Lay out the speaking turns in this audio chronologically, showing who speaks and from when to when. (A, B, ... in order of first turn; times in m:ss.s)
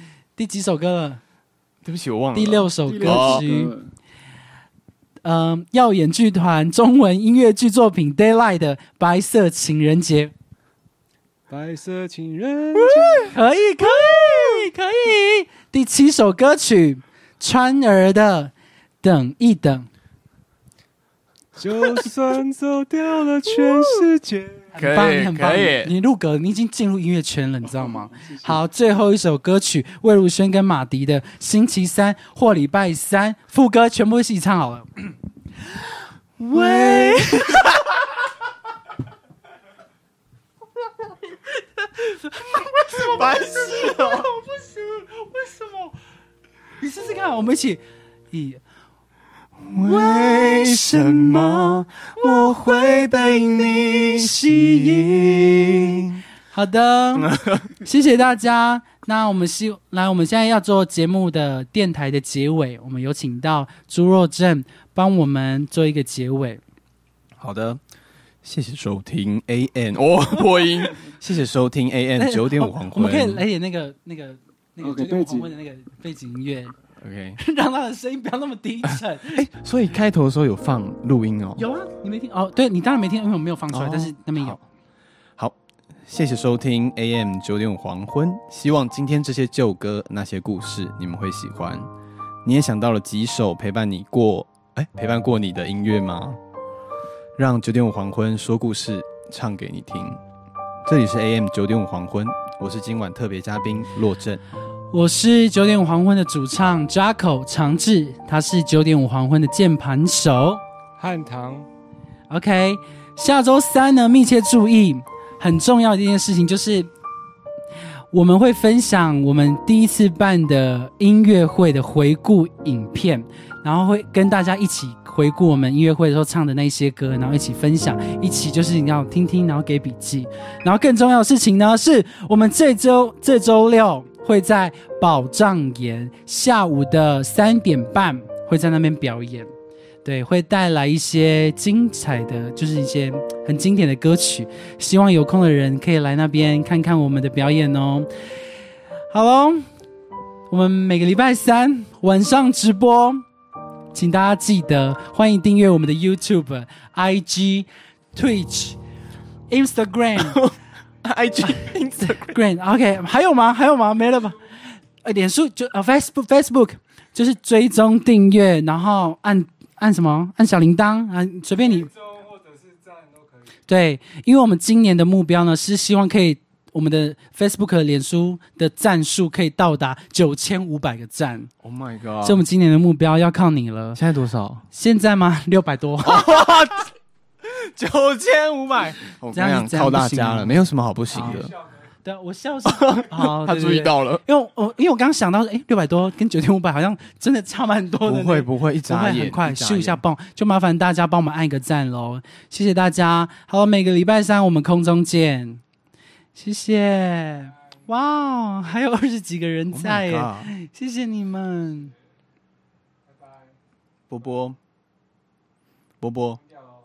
0:00.4-0:01.2 A
0:01.8-0:03.4 B
0:02.3-0:03.7 A
0:02.8-0:03.9 C
0:05.2-0:10.3 A
0:11.5-0:13.3 C
0:12.7-0:14.7 B
0:13.2-0:19.9 A
0:21.6-0:24.7 C
0:21.7-0:22.4 B
0:23.4-0:24.1 B
0:24.7-0:25.9 B
0:24.7-0:35.1 A
0:27.6-0:28.6 C
0:36.4-0:37.9 A
0:36.5-0:38.0 B
0:41.4-0:46.0 A
0:42.9-0:44.3 B
0:46.8-0:48.6 A
0:49.6-0:56.2 B
0:49.7-0:53.1 A
0:53.7-1:06.6 A
0:57.1-0:57.7 B
1:07.4-1:07.8 B
1:08.4-1:13.4 B
1:12.2-1:16.7 A
1:14.8-1:15.5 C
1:17.0-1:17.4 B
1:17.4-1:19.4 A
1:18.8-1:21.6 B
1:21.6-1:24.6 A
1:23.7-1:24.6 B
1:25.4-1:31.9 B
1:32.4-1:36.4 B
1:37.4-1:40.2 B
1:40.8-1:44.4 B
1:44.9-1:50.6 A
1:51.0-1:51.7 C
1:52.3-1:56.9 A
1:58.1-2:19.5 A
2:20.0-2:28.1 A
2:29.1-2:29.6 A
2:30.5-2:33.2 A
2:33.9-2:38.8 A
2:39.5-2:40.4 A
2:40.2-2:42.4 B
2:42.0-2:44.4 A
2:45.0-2:51.9 A
2:51.7-2:53.4 C
2:53.7-3:01.5 A
3:01.6-3:02.4 B
3:02.2-3:04.0 A
3:04.0-3:04.6 B
3:04.7-3:06.3 A
3:06.0-3:11.6 B
3:09.3-3:10.6 A
3:11.1-3:11.5 A
3:12.0-3:25.6 A
3:12.6-3:14.2 B
3:18.0-3:20.0 B
3:26.3-3:31.9 A
3:29.7-3:30.5 B
3:34.1-3:34.6 B
3:36.0-3:36.4 B